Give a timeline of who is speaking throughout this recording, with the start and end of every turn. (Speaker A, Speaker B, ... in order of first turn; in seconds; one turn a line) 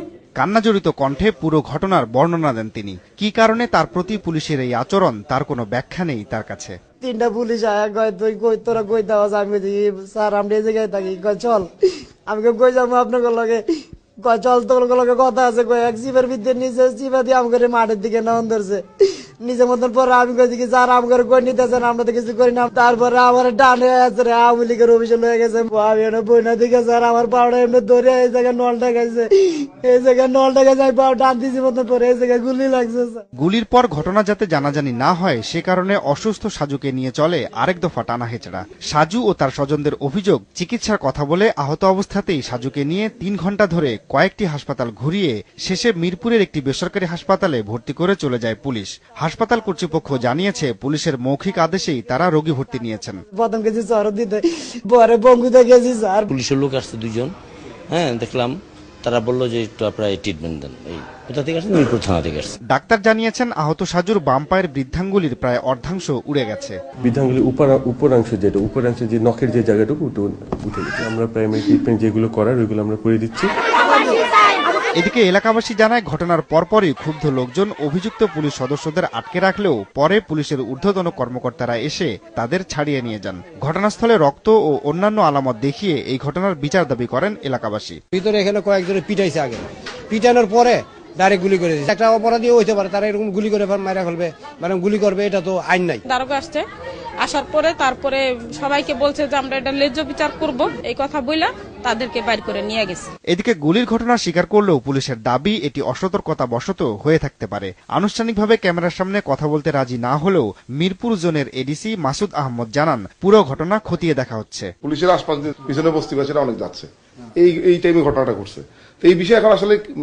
Speaker A: 0.4-6.8
Speaker B: 7.0-11.7
Speaker B: 12.3-13.6
Speaker B: 14.2-18.8
Speaker B: 19.4-33.2
Speaker A: 33.4-53.2
Speaker B: 53.4-56.3
Speaker C: 56.3-57.3
Speaker C: 57.9-62.5
Speaker A: 62.7-66.8
Speaker D: 67.0-73.5
Speaker A: 75.0-88.0
Speaker E: 88.1-96.0
Speaker F: 96.1-96.6
Speaker F: 97.2-103.1
Speaker A: 103.3-114.7
Speaker G: 114.8-119.8